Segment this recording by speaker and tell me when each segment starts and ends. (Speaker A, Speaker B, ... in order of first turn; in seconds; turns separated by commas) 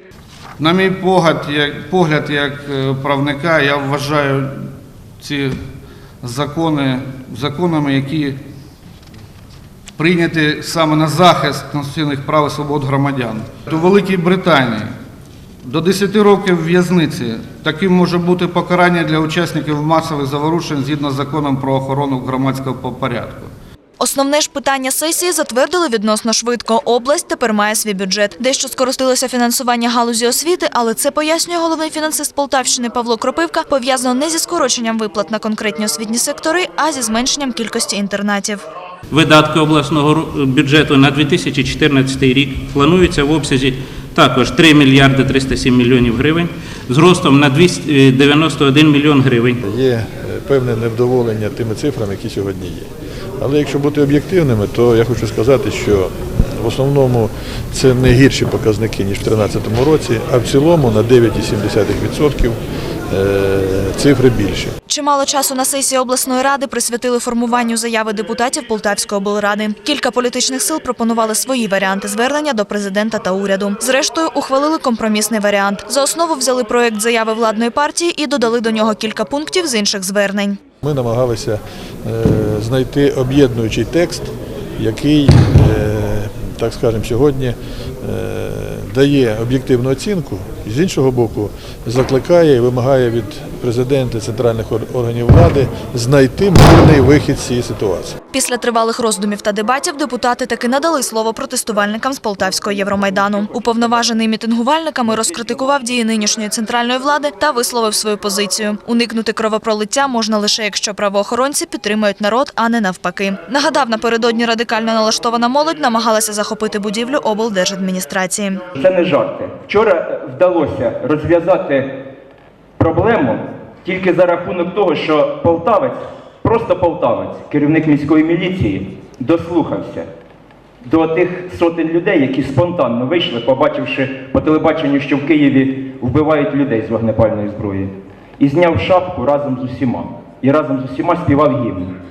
Speaker A: 0.6-4.6, Speaker A: 5.2-5.6, Speaker A: 6.2-8.4, Speaker A: 10.0-14.9, Speaker A: 15.6-23.5, Speaker B: 24.0-38.6, Speaker C: 39.1-49.6, Speaker D: 49.6-62.6, Speaker D: 63.1-64.7, Speaker B: 64.9-80.6, Speaker D: 80.8-98.2, Speaker B: 98.3-118.6, Speaker E: 118.8-121.9, Speaker E: 122.8-130.1, Speaker E: 130.8-141.9